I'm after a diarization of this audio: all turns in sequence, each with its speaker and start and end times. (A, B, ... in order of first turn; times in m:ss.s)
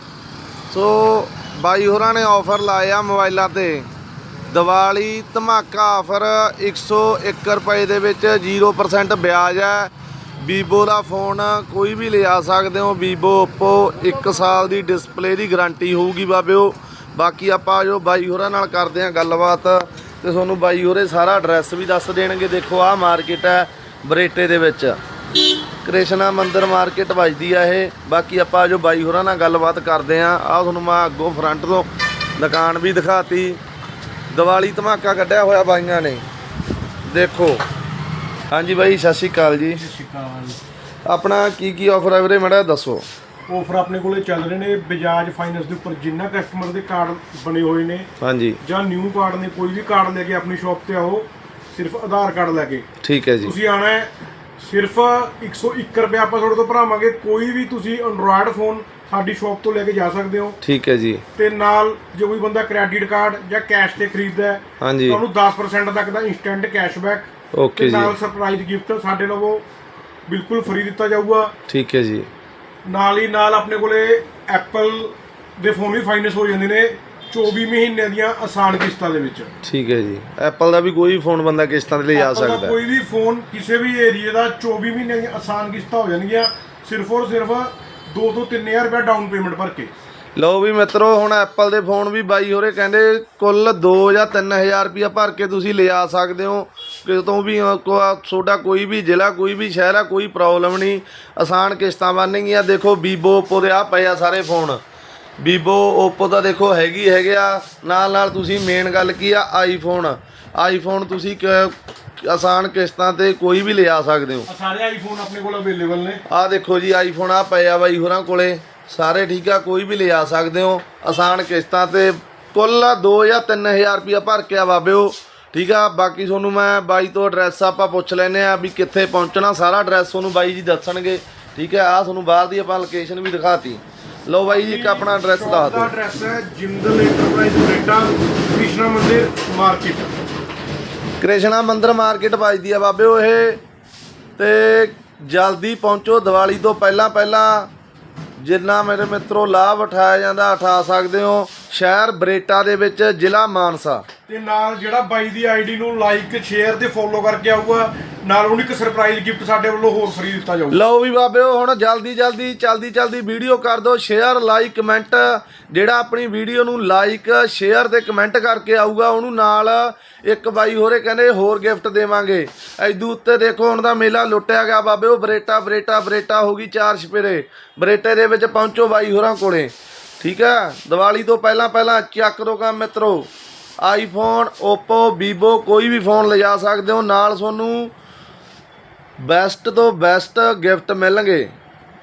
0:00.7-0:03.9 A
0:04.5-0:25.0 A
0:25.8-0:31.9 A
0:32.4-0:33.6 A
0:34.3-0:36.2 A
0:37.1-0:37.6 A
0:38.5-0:39.8 A
0:39.8-0:40.6 B
0:41.0-0:43.0 A
0:43.5-0:48.1 B
0:48.2-0:48.6 A
0:48.6-0:52.9 B
0:53.0-0:53.5 A
0:53.4-1:00.6 B
1:00.6-1:01.2 A
1:01.4-1:09.6 B
1:04.8-1:05.2 A
1:07.5-1:08.1 A
1:10.3-1:11.5 B
1:11.7-1:12.3 A
1:12.8-1:19.5 B
1:19.6-1:22.8 A
1:22.2-1:29.9 B
1:30.4-1:44.8 A
1:45.4-1:54.5 A
1:54.5-1:56.2 B
1:56.3-2:15.9 A
2:14.5-2:20.2 B
2:21.2-2:23.6 A
2:24.4-2:27.7 A
2:28.4-2:34.0 A
2:34.3-2:40.8 B
2:40.7-3:03.3 A
3:03.8-3:07.9 A
3:09.2-3:11.5 A